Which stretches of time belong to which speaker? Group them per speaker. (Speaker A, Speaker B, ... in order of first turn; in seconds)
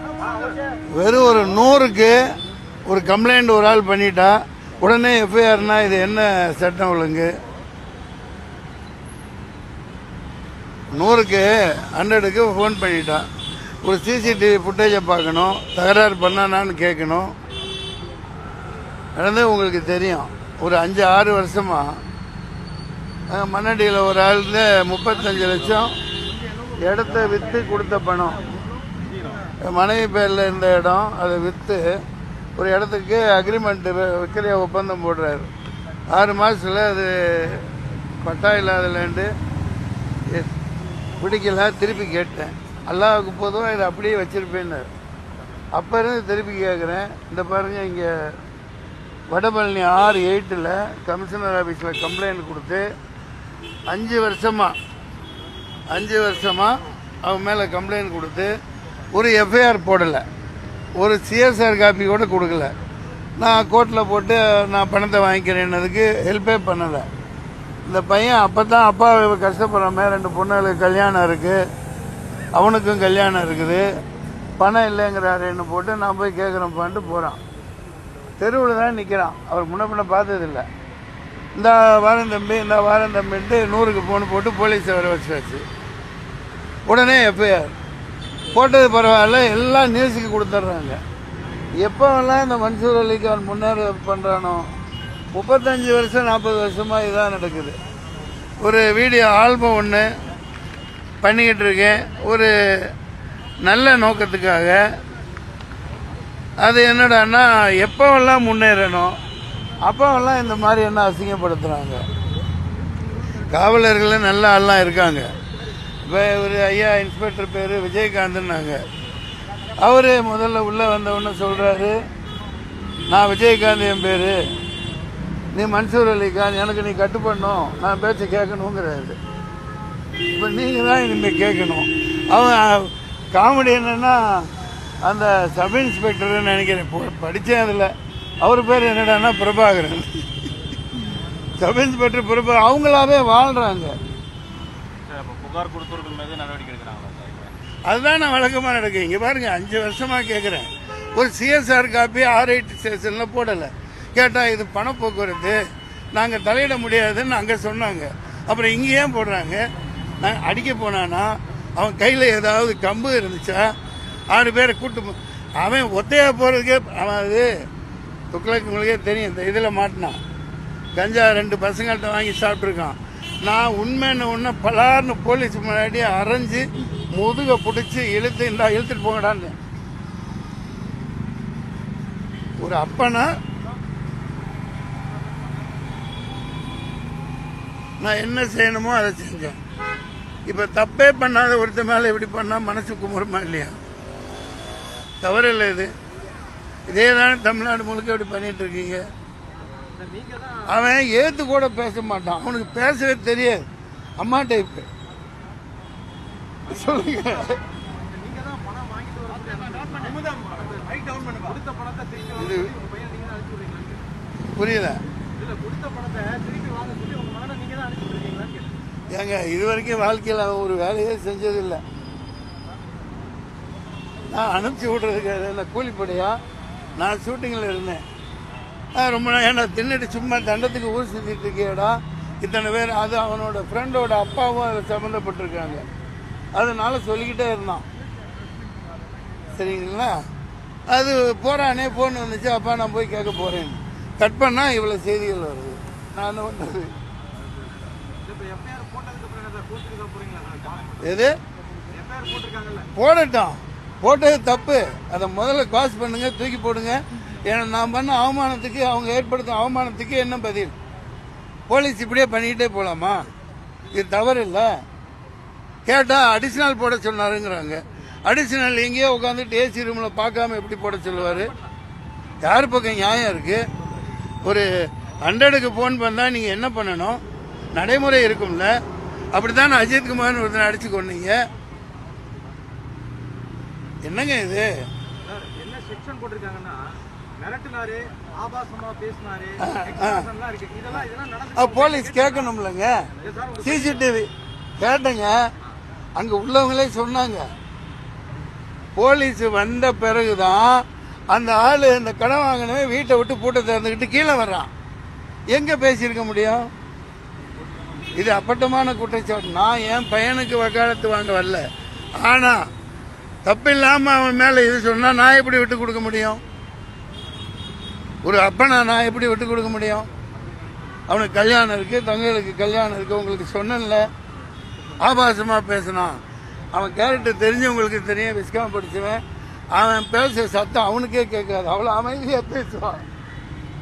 Speaker A: 0.2-0.5, 199.8-200.7, 206.7-214.1, 215.3-218.8, 248.2-251.0, 251.9-252.9, 270.9-271.7, 285.2-292.5, 293.1-294.1
Speaker B: 0.9-2.3, 2.9-7.3, 10.9-13.2, 13.8-17.3, 19.1-21.9, 23.3-26.0, 26.8-28.6, 29.5-31.9, 32.6-35.5, 36.1-37.7, 38.2-39.3, 41.2-44.9, 45.7-48.3, 49.3-52.8, 53.9-54.8, 55.9-58.5, 59.1-60.2, 61.0-62.7, 63.4-67.1, 67.9-71.6, 72.5-73.8, 74.6-77.4, 78.4-80.7, 81.5-85.6, 86.9-87.7, 88.5-91.0, 91.8-94.7, 95.3-97.8, 98.6-100.1, 101.2-102.9, 103.6-104.8, 106.6-109.2, 109.8-112.0, 113.4-115.3, 116.0-118.8, 119.8-122.0, 123.1-124.4, 125.5-129.2, 130.3-134.5, 135.0-140.2, 141.6-143.9, 147.9-155.6, 156.1-159.6, 160.2-163.7, 164.3-167.5, 168.3-170.2, 170.9-179.5, 182.6-183.3, 188.0-189.6, 190.5-193.8, 195.2-195.9, 196.9-199.0, 200.7-203.6, 204.2-204.9, 206.7-207.6, 212.4-212.7, 214.5-215.0, 219.1-221.8, 224.3-226.4, 227.0-228.0, 228.9-235.8, 236.5-237.8, 239.5-240.2, 240.9-246.9, 251.0-251.3, 252.9-260.7, 261.7-263.3, 263.9-264.8, 265.9-271.5, 272.4-273.6, 274.4-274.7, 275.2-277.2, 277.7-278.7, 279.3-281.4, 284.0-284.7, 289.6-290.3, 291.6-293.1, 293.6-295.4, 296.1-297.5, 298.9-304.7, 305.5-306.7, 308.2-311.6, 312.2-312.6, 313.4-316.4, 318.2-320.1, 321.1-324.1, 325.0-326.2, 326.7-329.2, 329.7-333.0
Speaker C: 145.1-147.5